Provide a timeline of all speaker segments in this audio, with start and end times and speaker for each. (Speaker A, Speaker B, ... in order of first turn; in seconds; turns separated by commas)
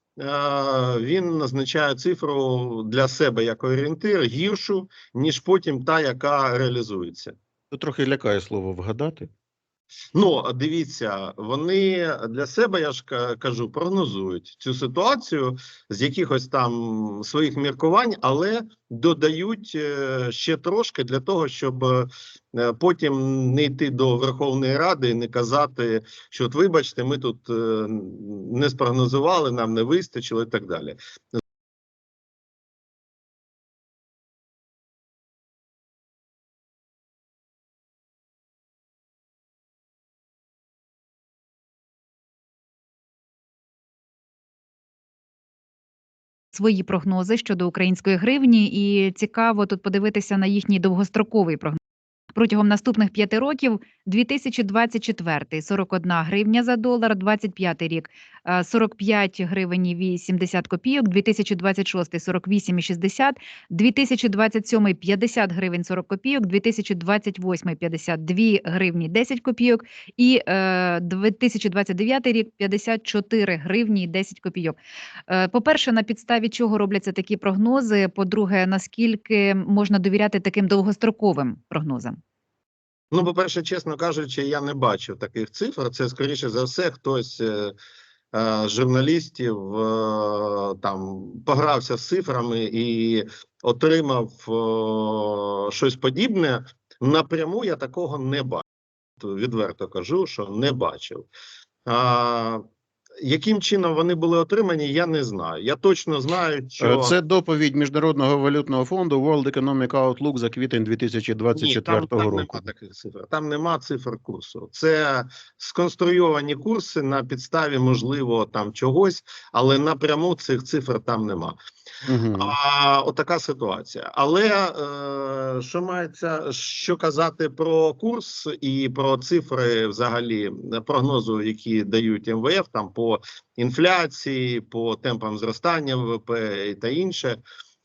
Speaker A: 0.2-7.4, Speaker B: 7.7-9.3, Speaker A: 10.2-31.0, Speaker C: 46.5-51.8, Speaker C: 52.3-74.8, Speaker C: 75.3-82.2, Speaker A: 83.1-87.8, Speaker A: 88.3-98.6, Speaker A: 99.2-101.3, Speaker A: 101.9-102.6, Speaker A: 103.2-107.2, Speaker B: 106.8-112.6, Speaker A: 111.5-121.6, Speaker B: 122.0-122.5, Speaker A: 122.4-137.4